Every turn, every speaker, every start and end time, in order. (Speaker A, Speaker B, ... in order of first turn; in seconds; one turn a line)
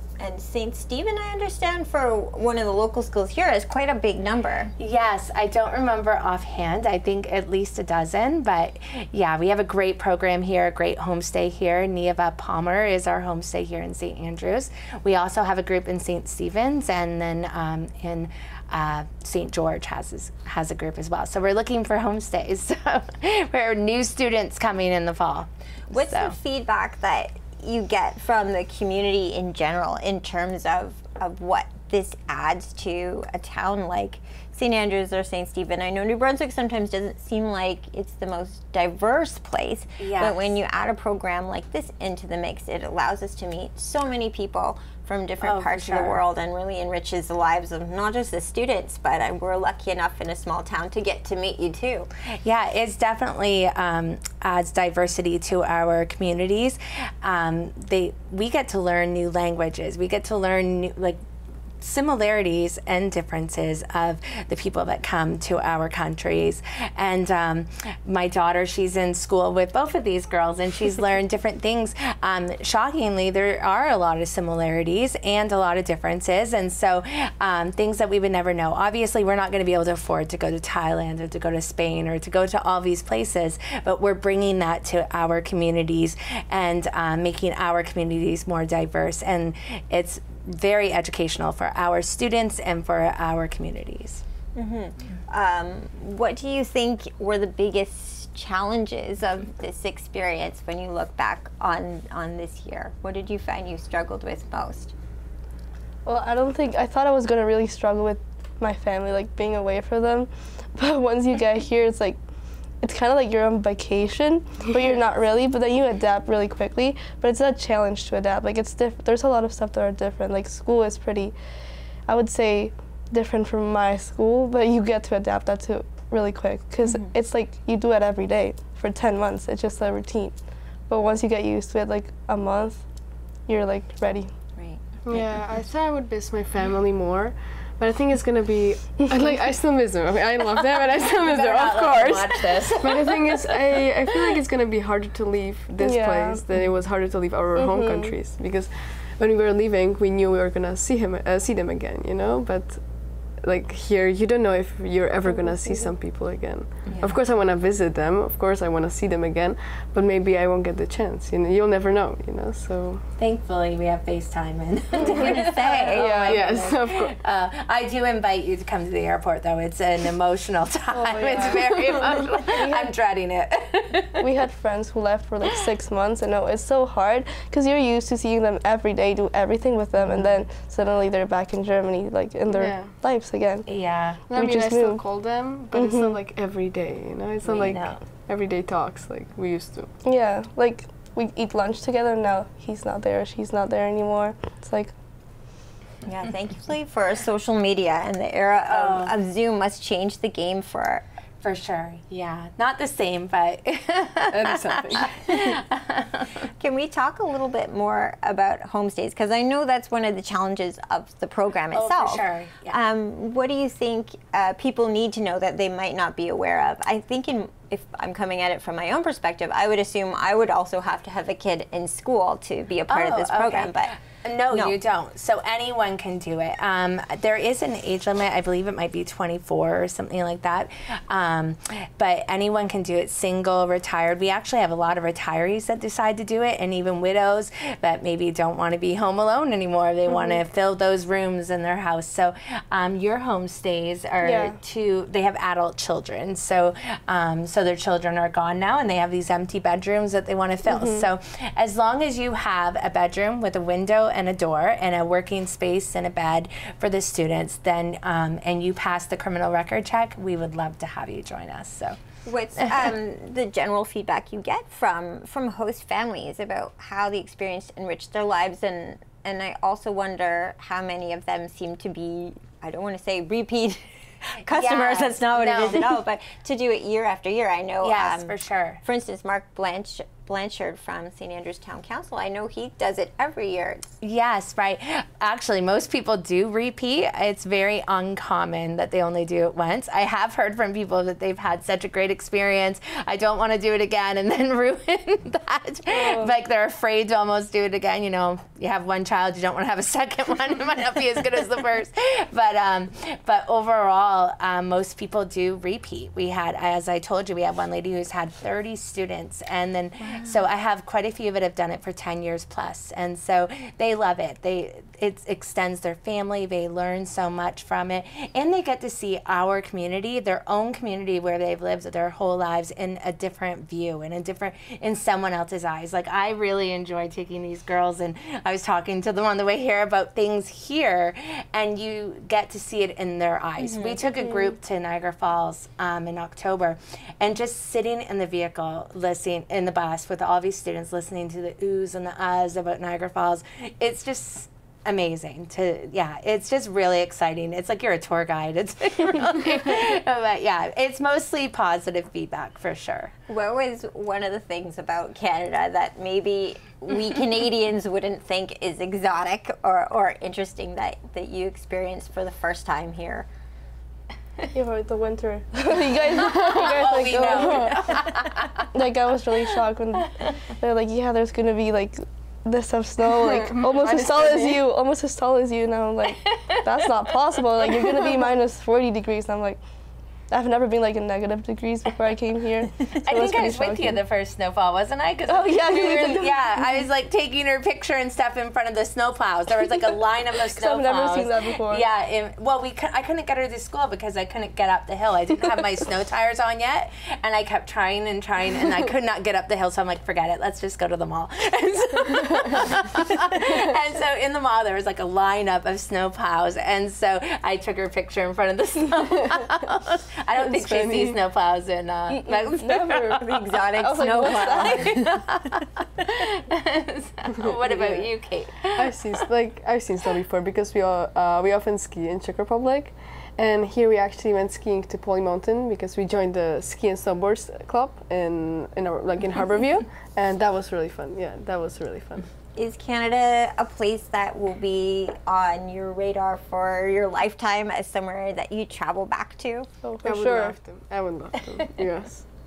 Speaker A: 0.2-4.7
Speaker B: 4.8-26.4
Speaker A: 25.9-52.1
Speaker B: 40.0-40.5
Speaker B: 45.4-46.2
Speaker B: 52.4-61.2
Speaker B: 61.8-94.2
Speaker A: 94.5-104.9
Speaker C: 106.1-112.2
Speaker C: 112.8-121.3
Speaker C: 122.1-130.4
Speaker C: 130.9-132.8
Speaker C: 133.5-134.3
Speaker D: 135.1-163.0
Speaker B: 141.2-143.6
Speaker C: 145.8-146.4
Speaker C: 147.6-148.2
Speaker C: 155.3-155.9
Speaker B: 156.9-157.2
Speaker B: 163.2-174.3
Speaker A: 165.2-166.3
Speaker C: 165.9-166.6
Speaker D: 166.3-167.2
Speaker C: 170.9-172.9
Speaker C: 174.2-183.7
Speaker D: 182.5-182.9
Speaker B: 183.7-184.2
Speaker D: 184.3-189.9
Speaker C: 184.3-185.0
Speaker C: 185.7-186.2
Speaker A: 187.5-187.9
Speaker C: 190.0-194.9
Speaker A: 196.1-201.0
Speaker B: 198.7-199.1
Speaker B: 201.4-206.3
Speaker D: 204.3-205.6
Speaker A: 206.6-223.9
Speaker B: 211.7-212.8
Speaker B: 222.9-262.0
Speaker A: 224.5-224.8
Speaker C: 244.2-244.6
Speaker C: 250.7-251.1
Speaker A: 262.2-283.9
Speaker B: 262.6-262.9
Speaker B: 274.5-275.9
Speaker B: 277.8-278.8
Speaker B: 284.0-353.1
Speaker C: 295.9-296.4
Speaker A: 310.0-310.3
Speaker A: 333.6-334.0
Speaker C: 334.2-334.5
Speaker A: 353.3-363.3
Speaker C: 364.5-368.1
Speaker D: 366.2-367.9
Speaker B: 366.2-368.7
Speaker C: 368.7-379.6
Speaker D: 373.1-374.6
Speaker B: 376.1-376.7
Speaker C: 380.3-384.0
Speaker B: 382.9-418.9
Speaker C: 385.3-386.8
Speaker C: 390.6-391.9
Speaker D: 410.4-411.2
Speaker A: 412.1-415.3
Speaker C: 412.3-414.9
Speaker D: 417.4-418.1
Speaker D: 418.8-432.3
Speaker A: 432.6-439.7
Speaker C: 439.8-440.6
Speaker D: 440.1-442.2